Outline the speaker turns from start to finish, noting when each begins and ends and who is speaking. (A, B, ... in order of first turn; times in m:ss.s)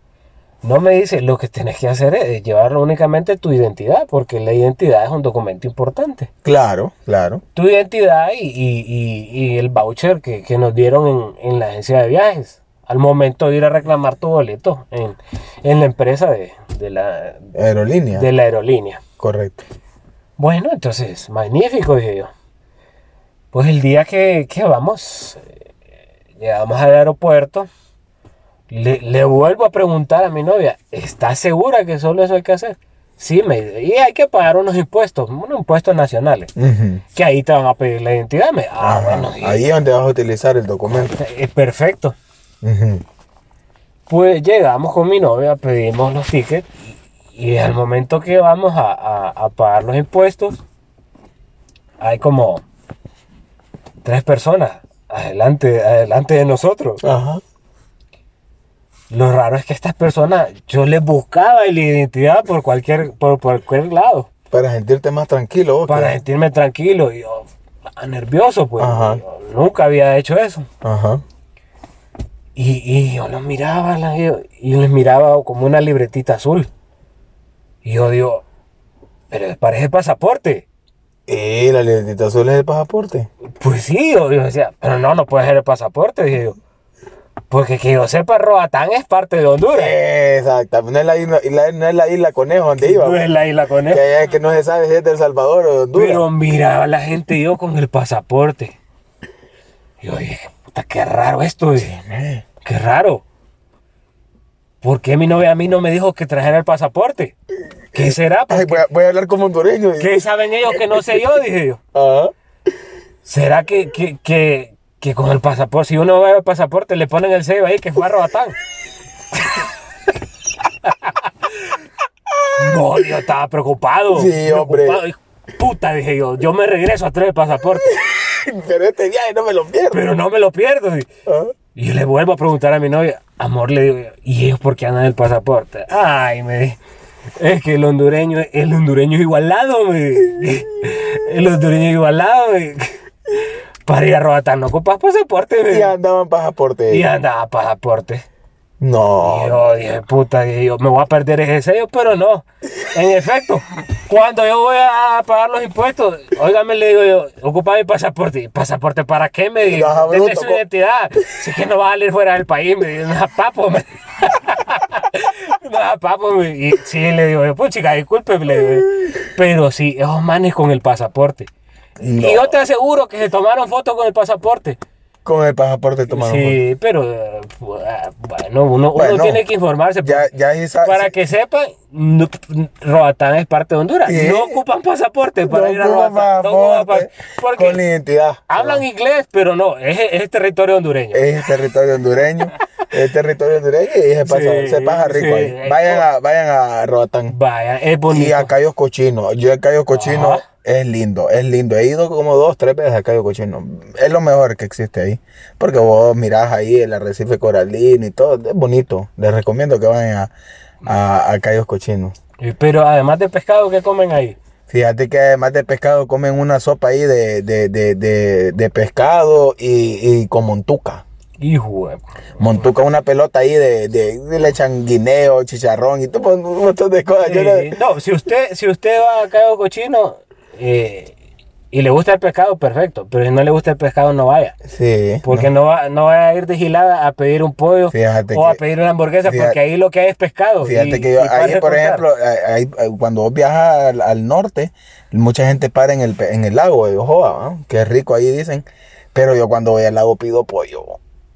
0:00.6-0:06.3 A
0:06.4-0:07.4 B
0:07.6-0:17.5 A
0:17.6-0:18.3 B
0:18.2-0:19.0 A
0:19.2-0:19.6 B
0:20.4-0:22.3 A
0:23.5-0:25.5 A
0:26.4-0:27.7 A
0:28.7-0:36.5 A
0:36.6-0:37.0 B
0:37.1-0:39.6 A
0:38.8-0:41.2 B
0:40.9-0:42.2 A
0:42.6-0:43.0 B
0:44.1-0:50.6 A
0:52.0-0:52.6 A
0:54.0-0:57.0 A
0:57.0-0:57.4 B
0:59.1-1:04.3 A
1:04.5-1:06.2 B
1:05.8-1:10.7 A
1:08.8-1:09.2 B
1:10.8-1:11.2 B
1:12.6-1:16.7 A
1:17.8-1:18.4 A
1:19.3-1:20.7 A
1:21.3-1:23.3 B
1:23.6-1:26.6 A
1:27.5-1:30.0 A
1:29.7-1:33.3 B
1:32.8-1:34.0 A
1:33.9-1:36.3 B
1:36.0-1:38.8 A
1:40.0-1:41.9 A
1:41.8-1:42.4 B
1:42.6-1:43.2 A
1:44.8-1:47.4 A
1:47.9-1:50.2 B
1:47.9-1:48.9 A
1:50.0-1:51.8 A
1:50.7-1:51.1 B
1:51.9-1:52.3 B
1:53.2-1:58.6 A
2:00.8-2:01.8 A
2:02.6-2:08.0 A
2:04.1-2:05.0 B
2:07.7-2:10.1 B
2:09.9-2:11.1 A
2:11.3-2:11.5 B
2:11.8-2:16.8 A
2:17.4-2:26.0 A
2:25.7-2:27.1 B
2:26.9-2:28.3 A
2:28.8-2:29.6 B
2:29.2-2:51.5 A
2:39.6-2:40.6 B
2:52.0-2:52.5 B
2:52.2-2:54.8 A
2:55.2-2:56.6 B
2:56.1-3:00.3 A
2:59.0-2:59.4 B
3:00.0-3:01.1 B
3:00.8-3:07.8 A
3:04.1-3:04.6 B
3:05.4-3:08.8 B
3:08.5-3:11.3 A
3:11.1-3:17.4 B
3:14.2-3:16.1 A
3:17.3-3:18.5 A
3:18.1-3:30.3 B
3:19.9-3:20.4 A
3:30.8-3:32.2 B
3:32.4-3:34.4 A
3:34.7-3:41.0 B
3:41.4-3:42.6 A
3:42.4-3:47.7 B
3:47.2-3:51.2 A
3:51.7-3:54.6 A
3:54.7-3:55.5 B
3:55.2-4:02.0 A
3:57.9-3:58.6 B
3:59.2-3:59.6 B
4:00.6-4:11.0 B